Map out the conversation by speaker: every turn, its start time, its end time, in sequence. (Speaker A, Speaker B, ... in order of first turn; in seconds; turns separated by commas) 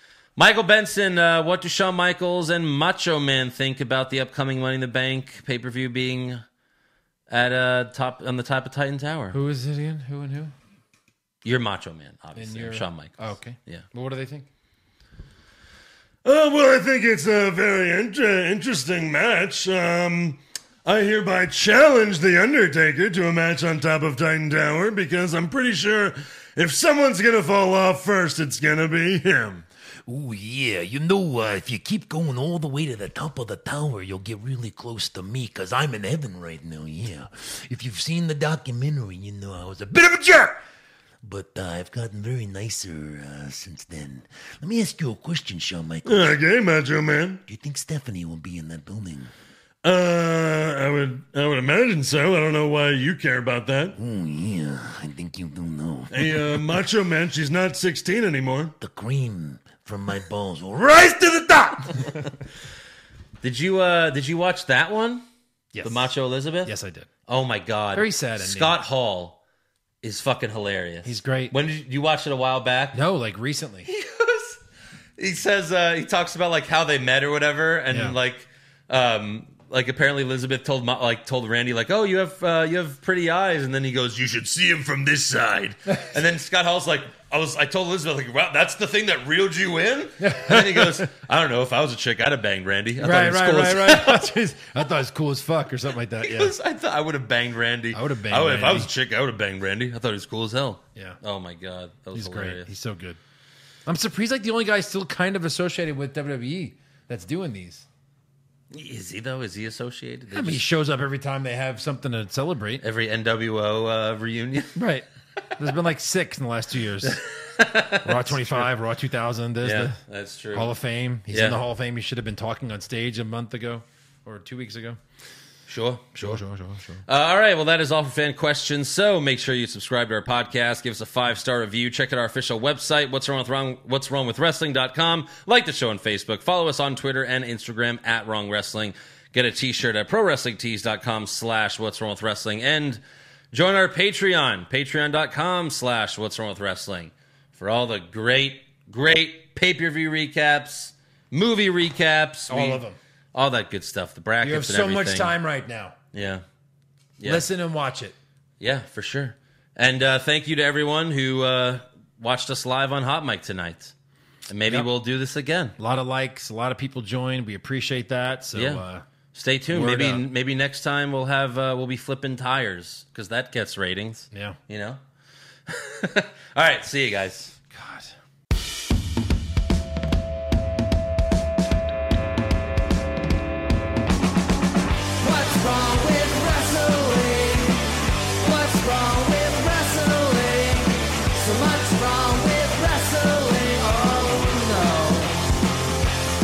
Speaker A: 0.4-6.4, Speaker A: 7.3-9.4, Speaker B: 9.3-10.5, Speaker A: 11.4-13.8, Speaker B: 12.3-14.5, Speaker C: 16.2-29.7, Speaker D: 30.1-40.6, Speaker D: 41.2-46.2, Speaker C: 46.0-47.4, Speaker D: 47.5-49.3, Speaker C: 49.8-54.0, Speaker D: 54.0-56.1, Speaker C: 56.1-58.8, Speaker D: 58.8-61.9, Speaker A: 63.4-65.2, Speaker B: 65.7-67.1, Speaker A: 65.8-66.7, Speaker A: 67.3-69.4, Speaker B: 67.9-68.8, Speaker A: 70.0-73.0, Speaker B: 71.0-71.5, Speaker B: 72.9-73.9, Speaker A: 73.9-74.6, Speaker A: 75.2-94.3, Speaker B: 77.9-78.2, Speaker B: 90.2-91.2, Speaker B: 93.0-96.5, Speaker A: 96.2-102.7, Speaker B: 97.9-98.9, Speaker B: 101.0-101.2, Speaker B: 102.1-103.2, Speaker B: 103.9-107.9, Speaker A: 108.7-110.7, Speaker B: 110.3-112.8, Speaker A: 112.8-114.9, Speaker B: 114.8-117.2, Speaker A: 117.0-118.7, Speaker B: 118.0-120.0, Speaker A: 119.6-120.8, Speaker B: 120.5-125.0, Speaker A: 121.3-121.6, Speaker A: 125.7-126.4, Speaker B: 126.2-127.0, Speaker A: 127.1-152.8, Speaker B: 152.5-153.0, Speaker A: 153.3-155.4, Speaker B: 154.4-156.0, Speaker A: 156.1-156.4, Speaker A: 157.2-157.5, Speaker B: 157.2-158.2, Speaker A: 158.6-163.9, Speaker A: 164.5-165.8, Speaker B: 165.8-169.1, Speaker A: 168.5-168.8, Speaker A: 169.3-175.0, Speaker B: 169.7-170.2, Speaker B: 174.3-174.6, Speaker A: 175.7-177.6, Speaker B: 177.7-178.1, Speaker E: 185.2-195.5